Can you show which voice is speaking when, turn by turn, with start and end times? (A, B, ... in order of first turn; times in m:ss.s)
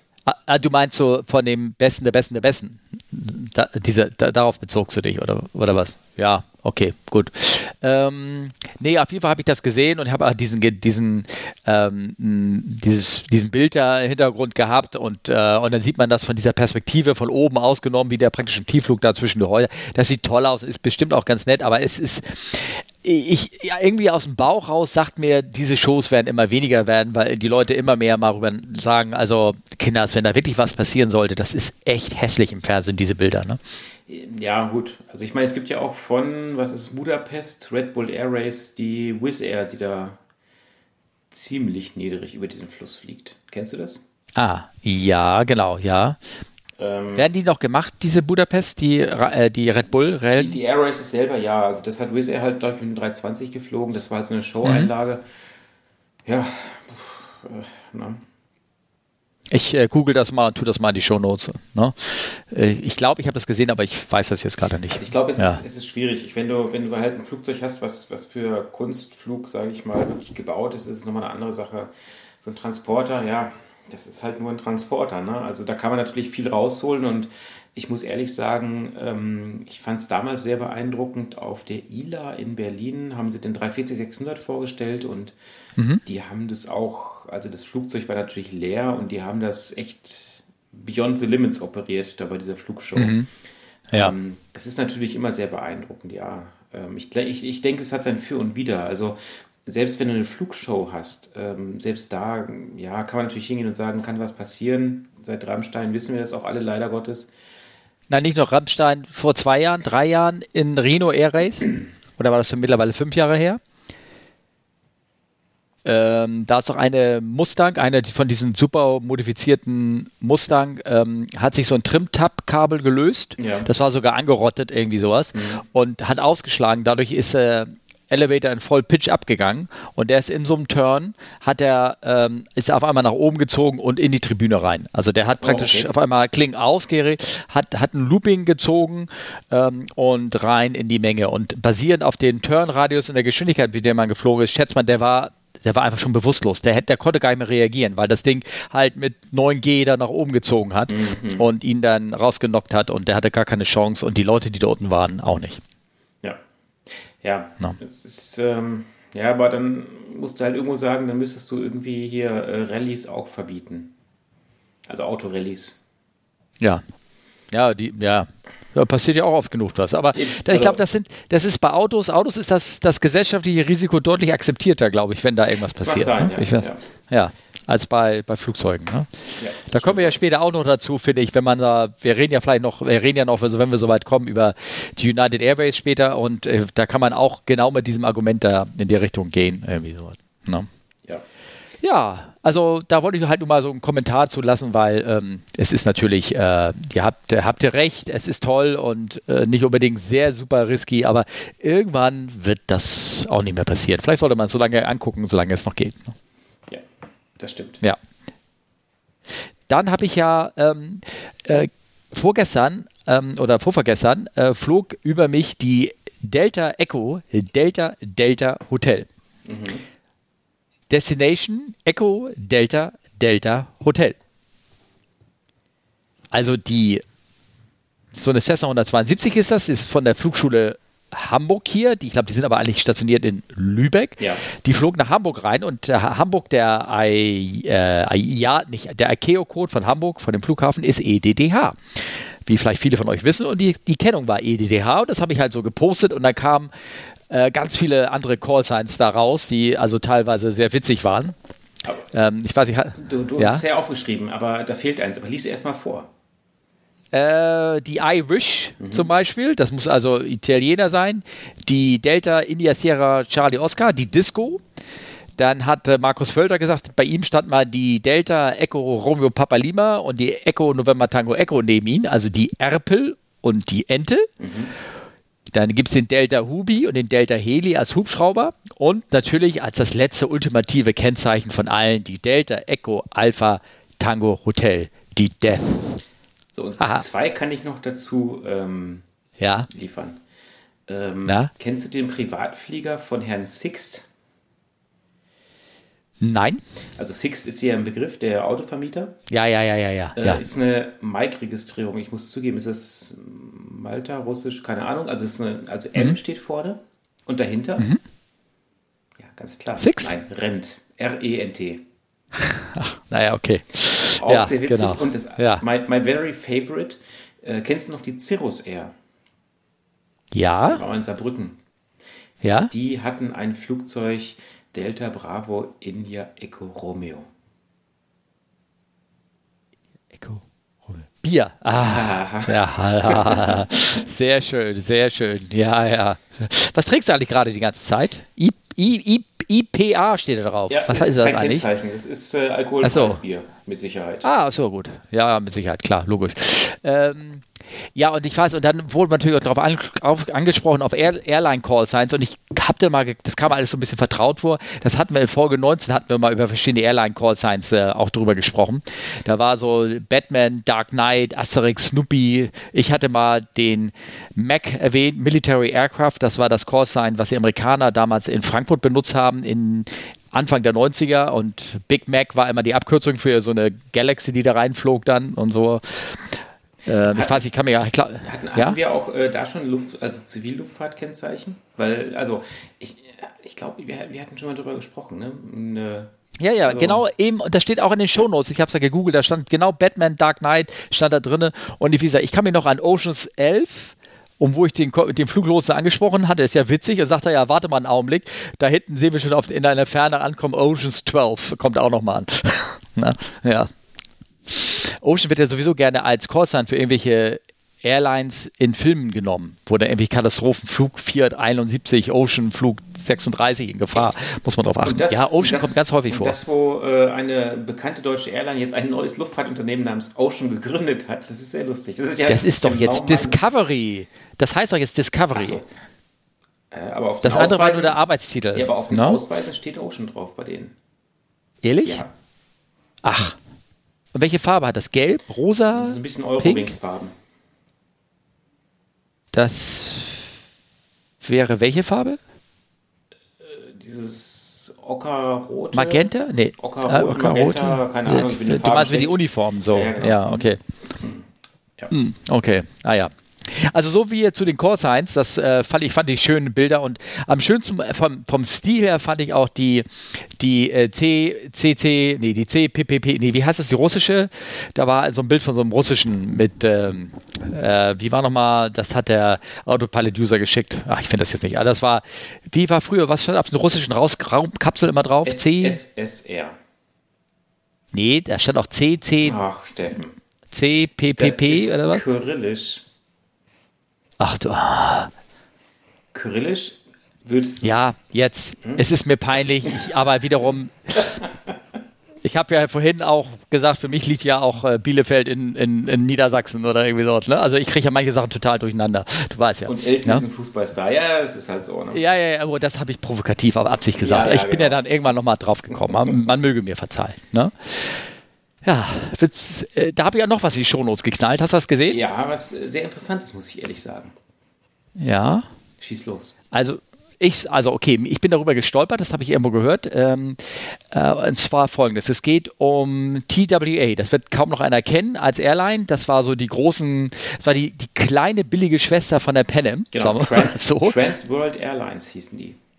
0:00.3-0:33.6 A
0:34.1-0:40.2 B
0:41.3-0:44.0 B
0:44.4-0:46.2 A
0:46.8-0:47.3 B
0:47.2-0:50.6 A
0:50.4-0:55.3 B
0:54.6-0:54.9 A
0:56.2-0:58.2 B
0:59.5-1:05.6 A
1:04.9-1:25.4 B
1:26.0-1:33.2 B
1:33.0-1:33.3 A
1:33.9-1:47.3 B
1:48.1-1:53.6 A
1:55.8-2:35.6 A
2:03.4-2:03.7 B
2:05.3-2:05.6 B
2:15.4-2:15.9 B
2:30.9-2:31.5 B
2:36.2-2:43.9 B
2:44.9-2:45.8 B
2:47.5-2:59.1 A
2:50.2-2:50.8 B
2:55.8-2:56.8 B
2:59.4-3:00.2 B
2:59.7-3:10.7 A
3:11.8-3:26.2 A
3:27.4-3:27.8 B
3:29.7-3:39.1 A
3:39.5-3:39.8 B
3:40.9-3:44.2 A
3:46.3-3:47.0 A
3:48.1-4:06.7 A
4:07.3-4:11.4 A
4:12.1-4:13.6 A
4:13.0-4:16.1 B
4:17.1-4:24.6 A
4:18.8-4:19.1 B
4:25.4-4:34.3 A
4:34.4-4:34.7 B
4:35.5-4:46.0 A
4:46.5-4:49.0 B
4:46.8-4:47.0 A
4:49.4-4:49.7 A
4:49.7-4:50.2 B
4:50.9-4:54.1 B
4:51.3-4:51.5 A
4:56.2-4:56.6 A
4:57.0-4:59.2 B
4:59.3-5:00.4 A
5:00.2-5:07.9 B
5:09.2-5:11.8 B
5:09.8-5:10.1 A
5:12.4-5:15.6 A
5:14.2-5:18.9 B
5:20.3-5:20.8 A
5:20.7-5:21.6 B
5:22.4-5:22.7 A
5:22.7-5:27.3 B
5:30.1-5:41.6 A
5:31.8-5:34.0 B
5:40.7-5:44.3 B
5:42.8-5:43.2 A
5:44.2-5:47.4 A
5:48.0-6:16.2 A
6:16.9-6:18.8 A
6:17.1-6:17.4 B
6:18.2-6:26.1 B
6:26.4-6:43.7 A
6:26.6-6:27.0 B
6:44.5-6:56.4 A
6:54.8-7:03.4 B
7:02.3-7:05.6 A
7:05.3-7:05.6 B
7:06.7-7:08.0 B
7:07.2-7:09.2 A
7:08.5-7:10.8 B
7:11.6-7:12.0 A
7:11.8-7:12.1 B
7:13.0-7:13.4 A
7:14.1-7:16.7 A
7:15.7-7:17.1 B
7:19.3-7:20.3 A
7:21.2-7:22.2 A
7:23.4-7:29.2 B
7:25.7-7:30.6 A
7:29.7-7:31.2 B
7:31.9-7:39.9 A
7:40.4-7:55.8 A
7:55.2-7:56.6 B
7:57.9-7:59.4 A
7:59.2-8:00.2 B
8:00.5-8:02.0 A
8:01.2-8:02.9 B
8:04.2-8:05.1 A
8:06.1-8:08.0 B
8:07.6-8:11.2 A
8:12.2-8:20.2 A
8:19.7-8:22.0 B
8:21.9-8:28.0 A
8:24.0-8:24.8 B
8:25.7-8:26.2 B
8:28.6-8:32.0 A
8:31.9-8:34.2 B
8:35.0-8:35.5 A
8:35.8-8:36.3 B
8:36.5-8:51.0 A
8:49.9-8:52.6 B